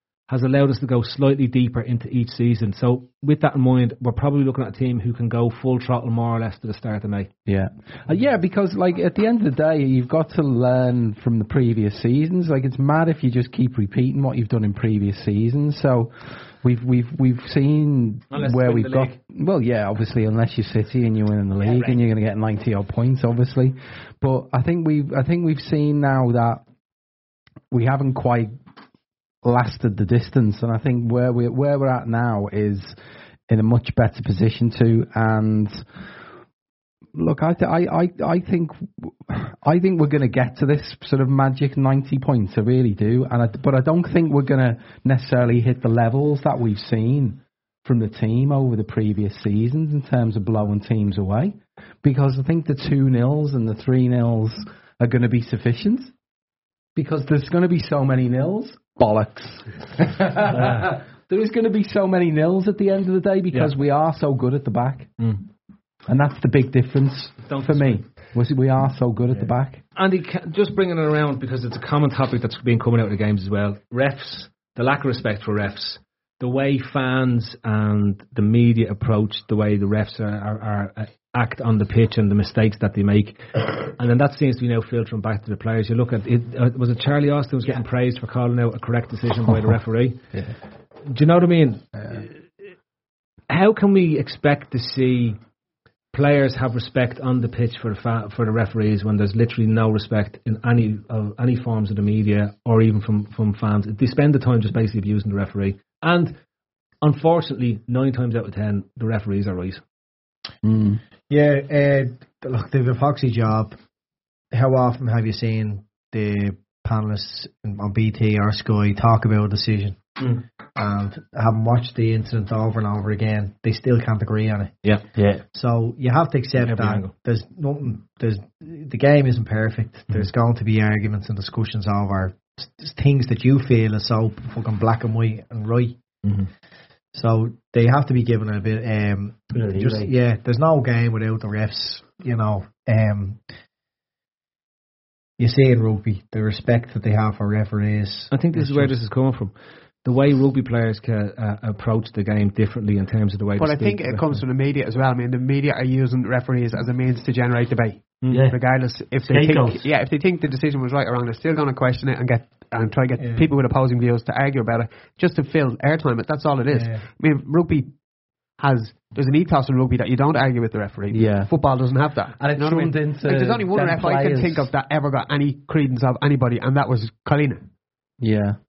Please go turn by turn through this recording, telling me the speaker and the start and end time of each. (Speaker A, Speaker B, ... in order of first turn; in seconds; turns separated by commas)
Speaker A: 0.3-7.3, Speaker B: 7.5-26.6, Speaker A: 18.3-19.2, Speaker C: 21.6-22.0, Speaker B: 27.7-28.5, Speaker B: 29.4-32.9, Speaker B: 33.5-35.8, Speaker B: 37.1-56.1, Speaker B: 57.0-65.2, Speaker B: 66.1-69.8, Speaker A: 67.4-68.0, Speaker A: 70.0-90.2, Speaker A: 91.1-92.3, Speaker B: 92.0-92.2, Speaker A: 93.5-95.4, Speaker A: 96.1-106.3, Speaker A: 107.0-109.8, Speaker B: 110.6-111.0, Speaker D: 111.3-113.7, Speaker D: 114.5-120.0, Speaker D: 120.8-124.8, Speaker E: 125.1-125.4, Speaker D: 125.5-136.0, Speaker A: 126.6-127.1, Speaker A: 136.2-136.5, Speaker D: 137.1-143.4, Speaker E: 139.5-140.1, Speaker D: 145.4-149.0, Speaker A: 148.3-149.5, Speaker A: 150.0-154.4, Speaker C: 153.6-167.9, Speaker A: 158.2-158.5, Speaker E: 158.3-158.6, Speaker E: 159.1-159.8, Speaker D: 163.2-163.5, Speaker D: 166.7-167.0, Speaker C: 168.6-177.6, Speaker B: 171.1-171.5, Speaker B: 172.4-174.7, Speaker B: 178.2-178.6